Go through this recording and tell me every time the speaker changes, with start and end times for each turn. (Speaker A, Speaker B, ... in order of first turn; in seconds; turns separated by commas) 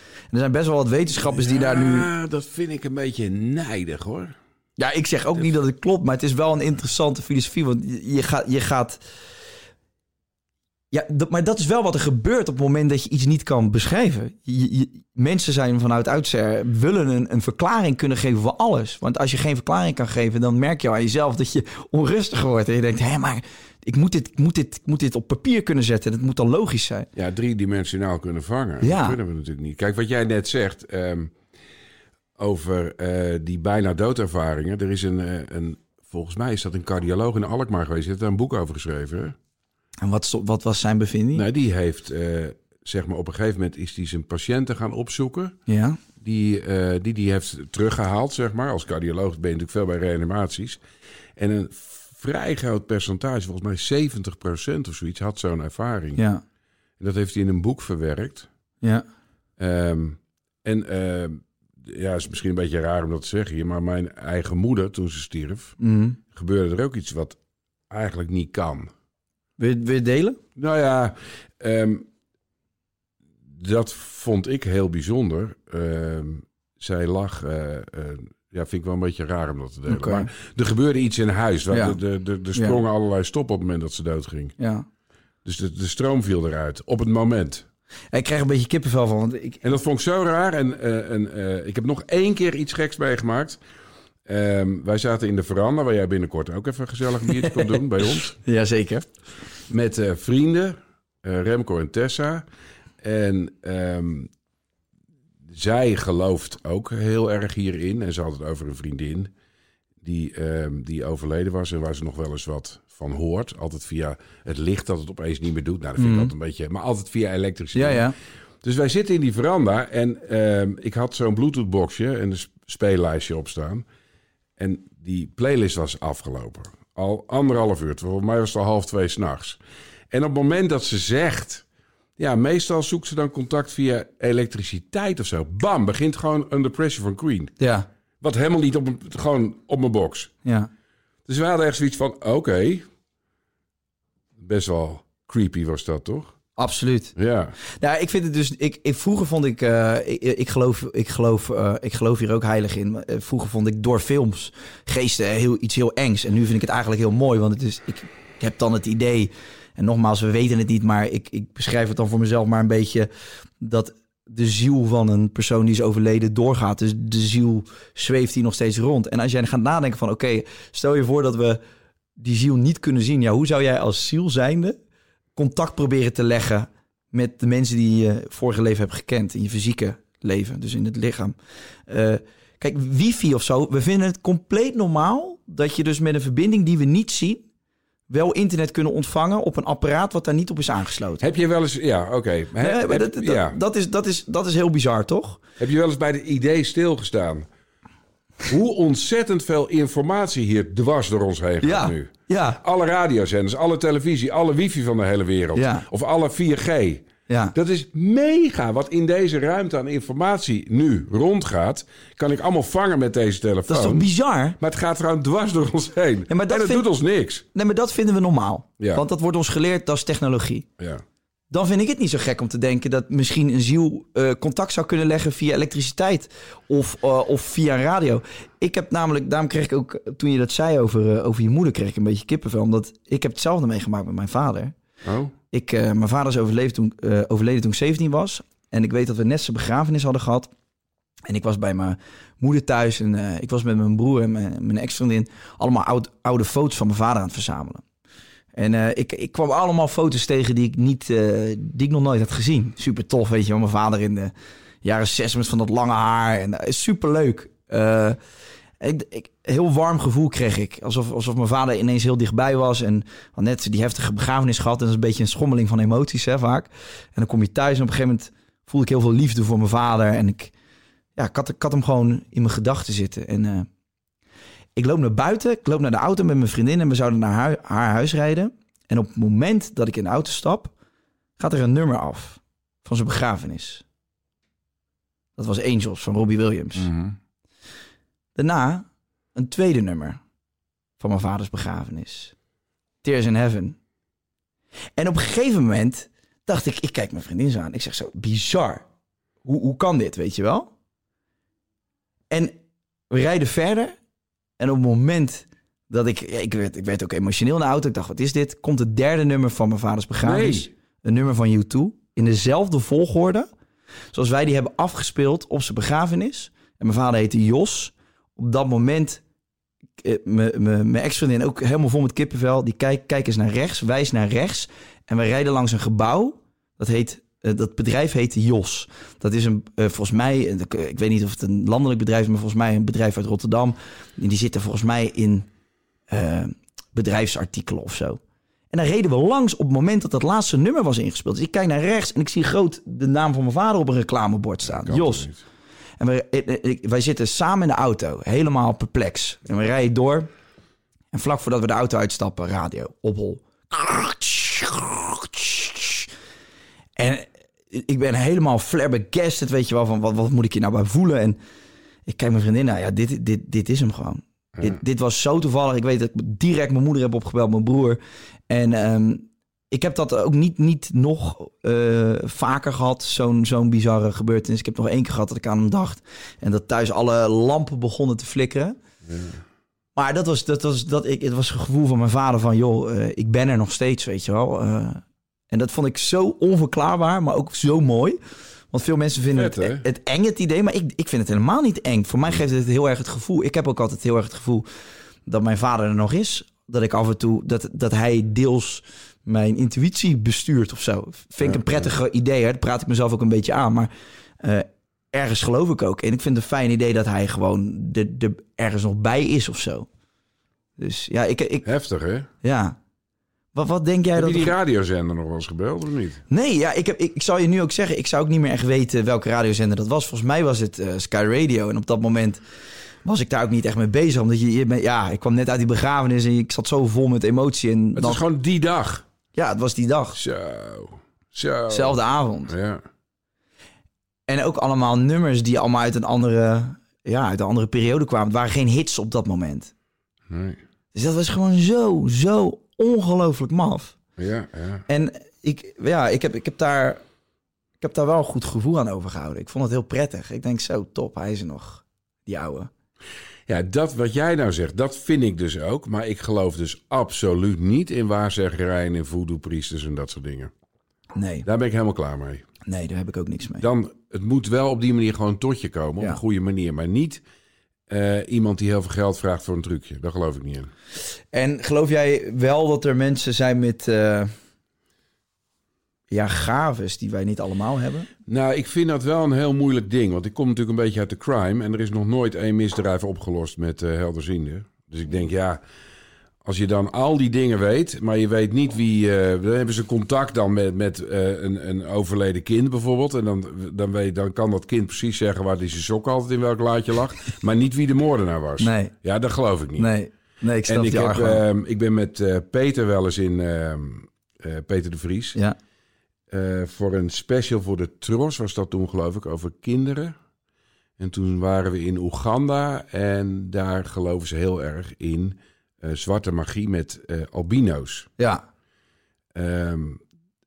Speaker A: 0.3-2.1, Speaker B: 1.2-4.3, Speaker A: 4.8-9.0, Speaker A: 10.9-27.1, Speaker B: 27.1-31.3, Speaker A: 28.8-29.2, Speaker B: 32.4-39.4, Speaker A: 40.0-41.4, Speaker B: 41.3-45.5, Speaker A: 45.7-46.0, Speaker B: 46.2-50.8, Speaker B: 51.4-56.2, Speaker A: 56.1-56.4, Speaker B: 57.0-58.5, Speaker B: 59.6-67.4, Speaker A: 65.8-66.2, Speaker B: 67.9-68.9, Speaker A: 69.6-70.4, Speaker B: 70.5-72.1, Speaker B: 73.5-84.5, Speaker A: 79.9-80.3, Speaker A: 81.7-82.0, Speaker A: 82.5-82.8, Speaker A: 84.6-84.8, Speaker B: 85.4-87.7, Speaker A: 88.1-89.6, Speaker B: 89.6-93.6, Speaker B: 94.2-98.3, Speaker A: 98.2-99.0, Speaker B: 99.7-102.4, Speaker B: 103.0-104.3, Speaker B: 105.5-109.3, Speaker B: 110.0-123.8, Speaker A: 116.0-116.3, Speaker A: 117.7-118.1, Speaker B: 124.6-129.6, Speaker B: 130.1-131.6, Speaker B: 132.2-137.5, Speaker A: 137.6-137.9, Speaker B: 138.2-140.3, Speaker A: 140.4-140.7, Speaker B: 141.2-142.9, Speaker B: 144.4-146.4, Speaker A: 146.6-147.1, Speaker B: 147.1-147.5, Speaker A: 147.8-163.1, Speaker A: 163.6-171.6, Speaker A: 172.2-174.8, Speaker A: 175.3-181.3, Speaker A: 181.9-187.4, Speaker A: 188.1-191.2, Speaker B: 191.2-193.6, Speaker A: 192.6-195.4, Speaker B: 195.6-197.5, Speaker B: 198.4-217.4, Speaker A: 201.6-202.6, Speaker A: 205.5-205.8, Speaker A: 207.3-207.5, Speaker A: 213.7-214.6, Speaker A: 216.3-216.8, Speaker A: 217.5-220.7, Speaker B: 218.8-219.0, Speaker A: 221.5-234.7, Speaker B: 235.0-235.3, Speaker A: 235.5-240.5, Speaker A: 241.3-247.8, Speaker A: 248.5-258.2, Speaker A: 258.8-270.5, Speaker A: 271.1-273.7, Speaker A: 274.8-280.7, Speaker A: 281.4-283.8, Speaker A: 285.4-286.9, Speaker B: 286.8-287.1, Speaker A: 288.3-290.2, Speaker A: 291.0-292.3, Speaker A: 293.0-293.8, Speaker A: 295.0-298.8, Speaker A: 299.4-300.7, Speaker A: 302.3-302.5, Speaker A: 303.1-303.9, Speaker A: 304.6-313.5, Speaker B: 310.2-310.7, Speaker A: 314.1-319.2, Speaker A: 320.0-335.5, Speaker A: 336.1-338.2, Speaker A: 338.7-345.3, Speaker B: 344.6-345.4, Speaker A: 346.0-350.3, Speaker A: 351.1-356.1, Speaker A: 357.0-361.4, Speaker A: 362.1-378.8, Speaker B: 379.0-379.4, Speaker A: 379.9-388.2, Speaker A: 388.7-394.6, Speaker B: 389.3-389.9, Speaker A: 395.3-409.9, Speaker B: 401.4-401.9, Speaker A: 410.8-411.7, Speaker B: 411.6-412.3, Speaker A: 412.4-412.8, Speaker A: 413.5-414.6, Speaker B: 414.1-416.2, Speaker A: 416.3-422.4, Speaker A: 423.0-428.2, Speaker B: 427.9-429.0, Speaker A: 429.3-430.2, Speaker B: 430.1-432.8, Speaker A: 431.7-432.5, Speaker A: 434.3-439.7, Speaker B: 440.3-440.6, Speaker A: 440.9-443.9, Speaker B: 444.2-444.8, Speaker A: 444.9-447.0, Speaker A: 447.8-452.7, Speaker B: 453.5-460.5, Speaker A: 461.1-461.4, Speaker B: 461.4-462.4, Speaker A: 462.6-463.6, Speaker B: 463.6-467.2, Speaker B: 467.9-470.7, Speaker A: 471.3-474.3, Speaker A: 476.1-478.1, Speaker B: 478.3-485.6, Speaker B: 486.4-499.9, Speaker A: 498.6-498.9, Speaker A: 499.8-501.4, Speaker B: 500.6-505.4, Speaker B: 506.3-510.1, Speaker B: 511.0-518.1, Speaker B: 519.3-520.0